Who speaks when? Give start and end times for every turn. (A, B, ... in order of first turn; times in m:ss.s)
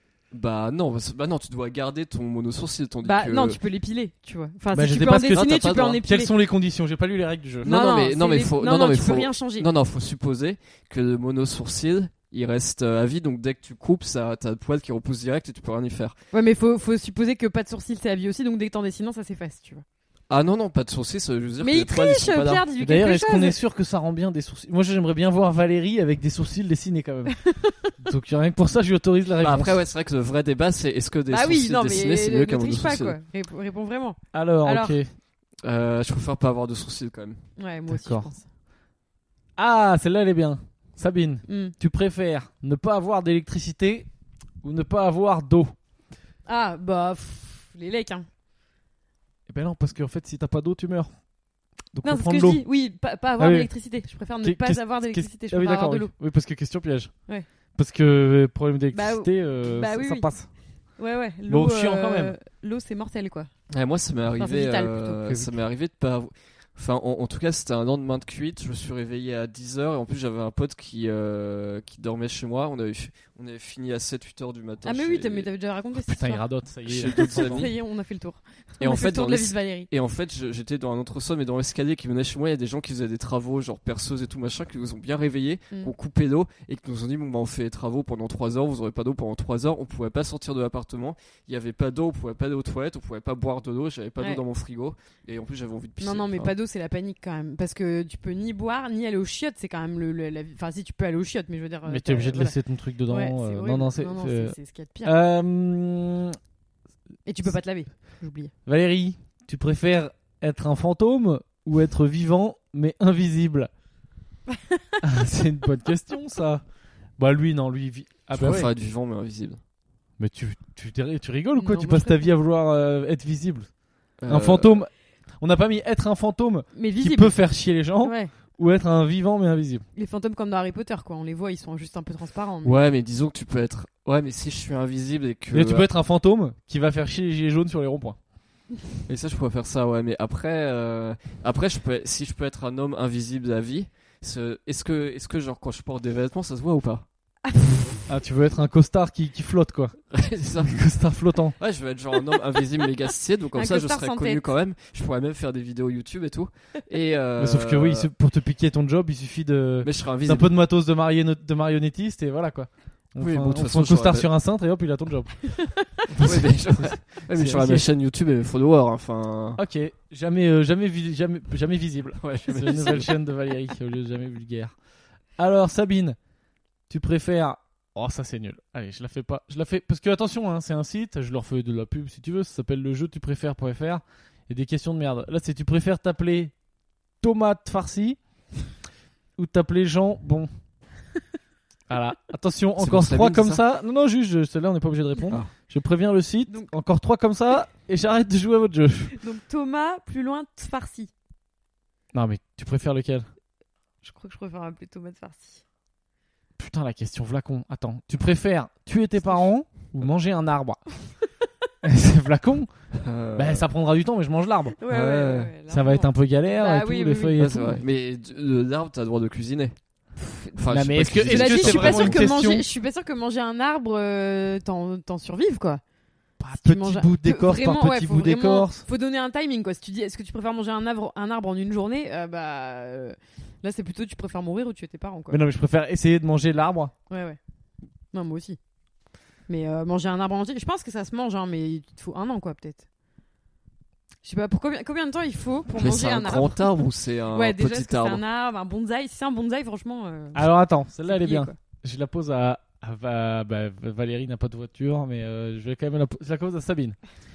0:00.3-0:03.6 A
0:03.0-0:06.3 B
0:04.7-0:07.7 C
0:05.3-0:06.0 A
0:07.6-0:16.1 A
0:07.6-0:09.7 B
0:16.3-0:19.8 B
0:20.3-0:22.6 A
0:21.6-0:23.6 B
0:22.8-0:27.4 C
0:27.3-0:27.9 B
0:28.0-0:29.8 C
0:29.4-0:33.2 A
0:31.3-0:35.0 B
0:34.3-0:35.1 C
0:35.6-0:37.4 A
0:37.6-0:38.4 B
0:37.9-0:38.3 C
0:39.6-0:44.1 C
0:41.5-0:41.7 B
0:44.6-0:45.7 C
0:46.4-0:48.3 B
0:49.5-0:51.1 C
0:51.9-0:52.6 C
0:52.0-0:56.1 B
0:53.4-0:53.7 C
0:54.4-0:57.1 C
0:57.7-1:00.5 C
0:58.9-1:00.3 B
1:01.0-1:03.5 B
1:01.5-1:02.3 C
1:03.7-1:15.5 A
1:04.4-1:05.2 B
1:05.3-1:05.6 C
1:14.8-1:16.4 B
1:16.0-1:17.7 C
1:16.8-1:17.7 A
1:17.0-1:19.9 B
1:18.8-1:36.5 A
1:36.0-1:42.5 B
1:41.8-1:46.4 C
1:43.1-1:45.1 B
1:47.2-1:48.5 B
1:48.6-1:53.7 C
1:55.0-1:56.6 C
1:57.2-1:58.7 C
1:58.3-1:59.6 A
2:00.2-2:03.7 C
2:01.6-2:02.3 B
2:04.2-2:04.8 A
2:04.3-2:09.8 C
2:06.7-2:07.4 B
2:08.0-2:08.3 B
2:10.0-2:12.8 B
2:12.6-2:15.9 A
2:15.5-2:18.2 C
2:19.1-2:27.0 A
2:27.4-2:27.9 B
2:28.1-2:30.0 C
2:30.1-2:30.8 A
2:30.6-2:31.6 C
2:31.6-2:38.1 A
2:33.5-2:34.4 B
2:37.4-2:45.5 C
2:39.8-2:40.5 A
2:43.2-2:44.3 A
2:45.5-2:46.0 B
2:46.1-2:49.6 A
2:46.2-2:47.9 C
2:49.6-2:54.8 C
2:52.2-2:53.1 A
2:55.4-2:56.2 C
2:56.9-3:06.5 C
3:07.2-3:08.2 C
3:09.4-3:10.5 C
3:11.9-3:19.1 C
3:12.8-3:13.6 A
3:19.1-3:21.1 B
3:22.1-3:23.3 C
3:24.0-3:25.6 B
3:26.6-3:30.8 C
3:29.2-3:29.5 B
3:31.8-3:32.7 C
3:33.0-3:33.6 A
3:33.4-3:34.8 C
3:34.8-3:37.7 B
3:34.9-3:35.5 A
3:35.7-3:37.8 C
3:37.4-3:39.8 A
3:40.2-3:40.6 B
3:40.6-3:42.3 A
3:40.7-3:42.7 C
3:41.2-3:45.8 B
3:46.4-3:48.8 C
3:46.5-3:55.4 B
3:55.3-3:56.9 C
3:57.1-3:57.4 B
3:58.1-3:58.6 B
3:59.5-4:02.8 B
4:04.2-4:06.7 B
4:05.7-4:08.2 A
4:07.3-4:10.5 B
4:10.3-4:17.0 C
4:11.0-4:11.5 B